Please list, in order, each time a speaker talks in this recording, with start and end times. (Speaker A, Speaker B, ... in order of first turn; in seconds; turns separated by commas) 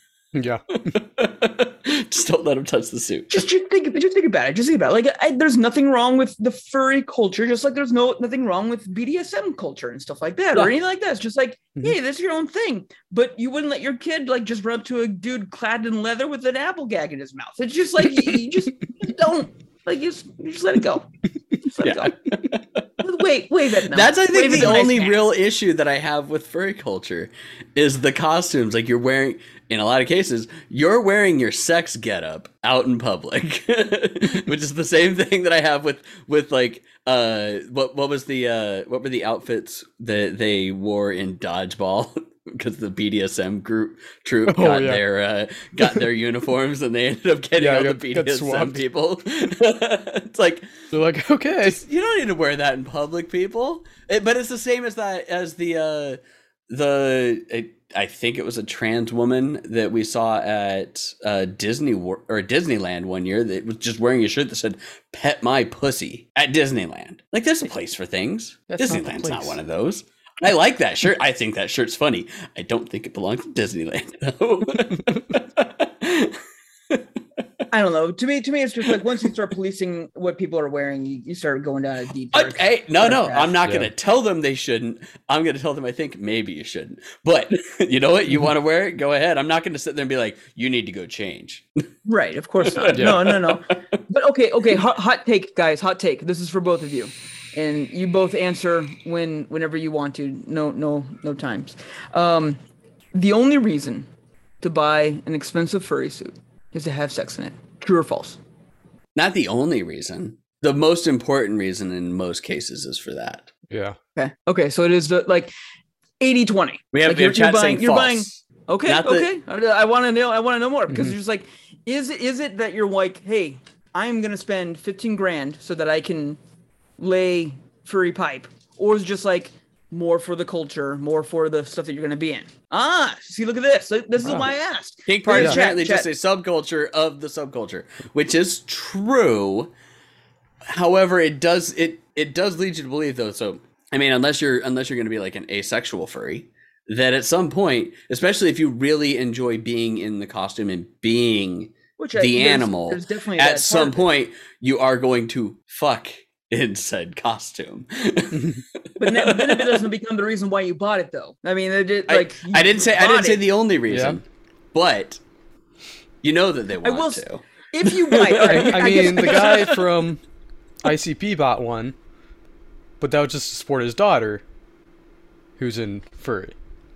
Speaker A: 0.3-0.9, Speaker B: 0.9-3.4, Speaker C: 3.3-21.1, Speaker C: 21.6-22.1, Speaker B: 21.8-22.8, Speaker C: 23.0-25.2, Speaker B: 23.9-50.8, Speaker A: 44.5-45.0, Speaker A: 47.6-48.8, Speaker A: 50.9-51.8, Speaker B: 51.6-76.4, Speaker A: 68.7-69.6, Speaker C: 77.7-83.5, Speaker B: 82.3-91.7, Speaker A: 83.6-83.9, Speaker C: 92.0-102.6, Speaker B: 92.6-94.0, Speaker A: 92.9-93.2, Speaker C: 103.1-104.1, Speaker C: 104.6-108.4, Speaker B: 109.1-113.5, Speaker A: 113.7-114.0, Speaker C: 114.2-115.5, Speaker C: 116.2-126.4, Speaker B: 116.9-118.3, Speaker B: 118.8-119.3, Speaker C: 127.0-136.1, Speaker B: 135.1-139.7, Speaker B: 140.7-159.8, Speaker C: 152.0-154.0, Speaker C: 159.0-163.4, Speaker B: 162.1-164.2, Speaker A: 163.9-164.2, Speaker B: 164.7-165.2, Speaker B: 166.2-169.8, Speaker C: 166.8-169.7, Speaker A: 168.4-170.2, Speaker A: 170.8-171.9, Speaker A: 173.0-174.4, Speaker A: 175.6-176.5